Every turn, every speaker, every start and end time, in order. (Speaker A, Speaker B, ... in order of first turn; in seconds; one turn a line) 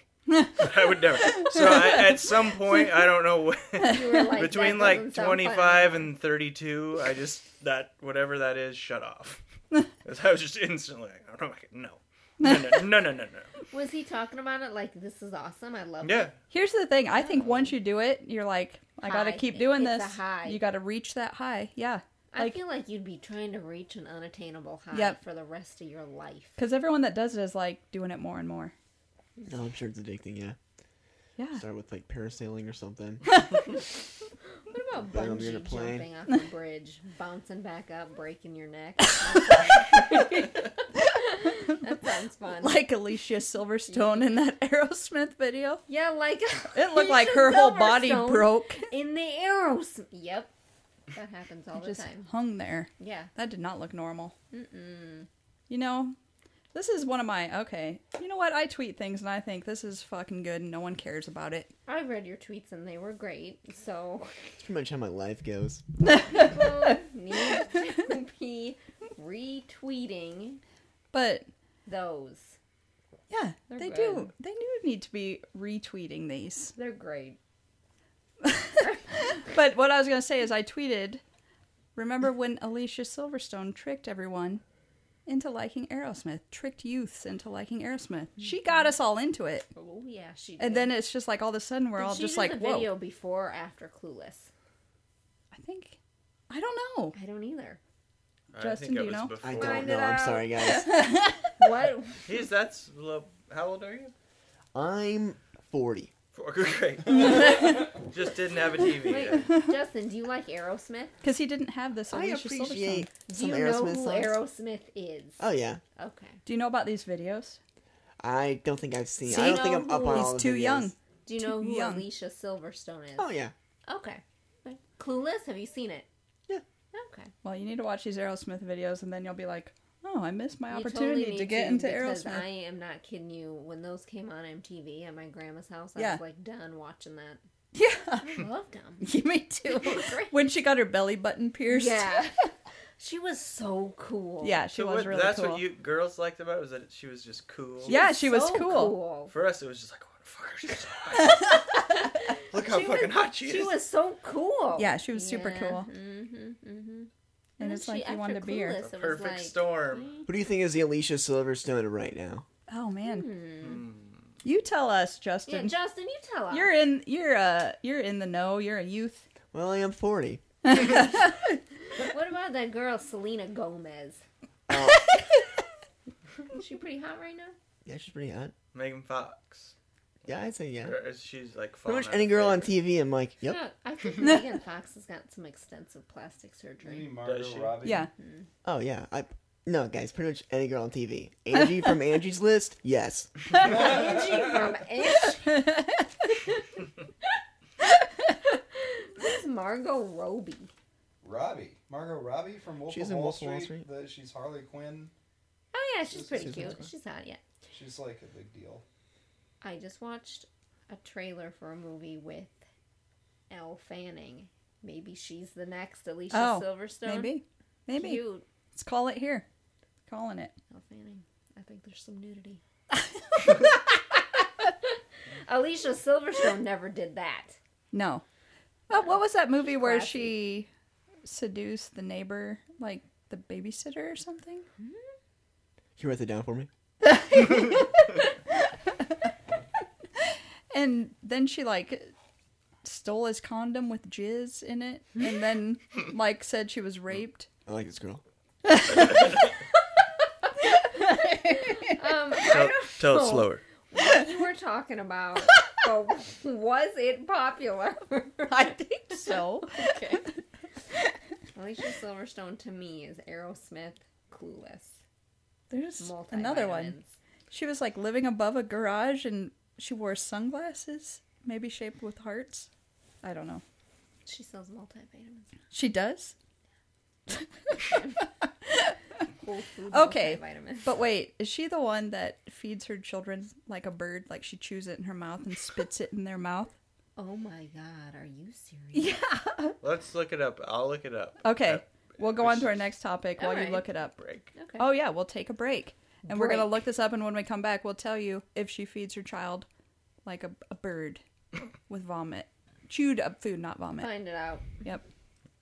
Speaker A: 0.3-2.0
Speaker B: 0.6-9.4
Speaker C: 3.9-6.1
Speaker B: 10.0-13.5
Speaker A: 12.4-12.8
Speaker C: 13.7-16.3
Speaker B: 16.0-16.4
Speaker A: 16.5-22.6
Speaker C: 17.2-17.8
Speaker C: 19.0-20.6
Speaker C: 22.3-26.6
Speaker A: 24.9-25.2
Speaker A: 26.6-28.7
Speaker D: 29.5-30.6
Speaker A: 31.4-31.6
Speaker D: 31.5-33.4
Speaker C: 34.7-42.9
Speaker D: 35.1-36.1
Speaker A: 39.9-40.4
Speaker A: 42.6-45.8
Speaker C: 45.9-50.5
Speaker A: 46.7-48.9
Speaker C: 51.1-52.3
Speaker A: 51.8-54.4
Speaker C: 53.0-53.3
Speaker C: 54.5-55.3
Speaker A: 55.7-56.1
Speaker A: 56.7-61.7
Speaker C: 61.9-64.5
Speaker D: 64.6-65.8
Speaker A: 66.1-66.9
Speaker C: 66.3-70.6
Speaker A: 71.1-71.5
Speaker C: 71.9-72.6
Speaker A: 73.3-76.7
Speaker C: 73.7-74.3
Speaker C: 76.8-77.4
Speaker A: 78.4-81.2
Speaker A: 82.0-84.6
Speaker A: 85.3-89.7
Speaker C: 89.8-90.9
Speaker A: 90.6-92.9
Speaker C: 92.0-94.5
Speaker A: 95.5-96.0
Speaker A: 96.5-97.2
Speaker C: 97.1-97.8
Speaker B: 98.5-99.9
Speaker A: 98.6-99.3
Speaker D: 99.4-101.2
Speaker C: 99.5-100.5
Speaker A: 100.6-101.5
Speaker C: 101.6-102.3
Speaker B: 102.2-104.1
Speaker D: 104.7-106.1
Speaker B: 106.3-109.5
Speaker C: 109.0-111.2
Speaker A: 111.2-113.1
Speaker D: 112.1-114.4
Speaker C: 113.3-115.4
Speaker D: 115.4-115.8
Speaker C: 116.0-116.4
Speaker A: 116.5-117.6
Speaker D: 118.2-120.9
Speaker C: 119.3-120.3
Speaker A: 119.3-122.1
Speaker C: 121.3-123.3
Speaker D: 123.2-123.5
Speaker C: 123.9-126.1
Speaker C: 126.9-127.3
Speaker A: 127.4-132.5
Speaker C: 130.7-137.4
Speaker A: 137.7-138.4
Speaker C: 138.2-139.1
Speaker A: 139.0-142.3
Speaker C: 139.6-140.4
Speaker C: 141.7-142.4
Speaker C: 143.0-144.6
Speaker A: 144.4-145.6
Speaker B: 144.7-148.0
Speaker C: 147.8-149.3
Speaker A: 147.9-149.0
Speaker B: 149.3-151.5
Speaker A: 151.2-151.6
Speaker C: 152.1-160.3
Speaker B: 152.5-153.8
Speaker A: 154.8-155.9
Speaker A: 157.6-158.8
Speaker B: 158.8-160.1
Speaker D: 160.3-162.4
Speaker A: 162.7-163.3
Speaker C: 163.1-163.9
Speaker B: 163.6-164.3
Speaker A: 164.4-165.8
Speaker C: 165.5-166.8
Speaker A: 166.5-169.3
Speaker D: 169.5-170.4
Speaker A: 170.7-171.6
Speaker C: 171.9-174.2
Speaker D: 174.7-175.1
Speaker C: 176.5-177.6
Speaker D: 177.8-178.5
Speaker B: 178.7-179.7
Speaker D: 180.3-181.0
Speaker B: 180.3-182.7
Speaker D: 181.9-183.6
Speaker C: 183.4-187.2
Speaker E: 186.8-188.1
Speaker B: 187.2-187.9
Speaker A: 187.8-188.1
Speaker C: 188.2-188.5
Speaker D: 188.6-193.4
Speaker C: 193.6-195.6
Speaker E: 193.7-194.7
Speaker A: 195.4-196.1
Speaker C: 198.7-200.7
Speaker E: 201.2-205.1
Speaker D: 202.9-203.9
Speaker C: 205.7-207.4
Speaker E: 206.1-206.8
Speaker D: 206.3-206.7
Speaker E: 207.7-208.8
Speaker C: 209.6-212.6
Speaker C: 213.5-217.4
Speaker A: 216.3-219.5
Speaker C: 217.9-218.4
Speaker A: 220.1-220.6
Speaker C: 220.7-222.6
Speaker C: 224.6-227.6
Speaker A: 227.9-228.2
Speaker A: 228.9-230.7
Speaker C: 229.6-230.4
Speaker A: 231.2-234.7
Speaker D: 236.0-236.7
Speaker A: 237.1-238.3
Speaker A: 240.2-242.1
Speaker A: 242.8-247.5
Speaker D: 247.7-248.2
Speaker A: 248.7-249.5
Speaker A: 250.9-252.0
Speaker C: 251.4-260.3
Speaker B: 252.4-253.6
Speaker A: 258.5-259.9
Speaker C: 261.5-265.0
Speaker A: 265.7-267.0
Speaker C: 266.0-267.1
Speaker A: 267.5-272.7
Speaker A: 273.2-273.6
Speaker C: 274.2-275.5
Speaker A: 275.7-276.3
Speaker A: 277.3-277.9
Speaker C: 277.8-278.2
Speaker A: 278.6-279.0
Speaker C: 279.4-280.9
Speaker A: 279.9-286.7
Speaker C: 287.2-289.2
Speaker A: 288.9-289.8
Speaker B: 289.8-292.8
Speaker A: 291.4-294.2
Speaker C: 293.4-293.9
Speaker B: 294.2-294.5
Speaker C: 294.6-294.9
Speaker A: 294.8-299.7
Speaker C: 296.2-296.8
Speaker A: 300.2-301.2
Speaker A: 301.9-304.1
Speaker C: 304.0-304.8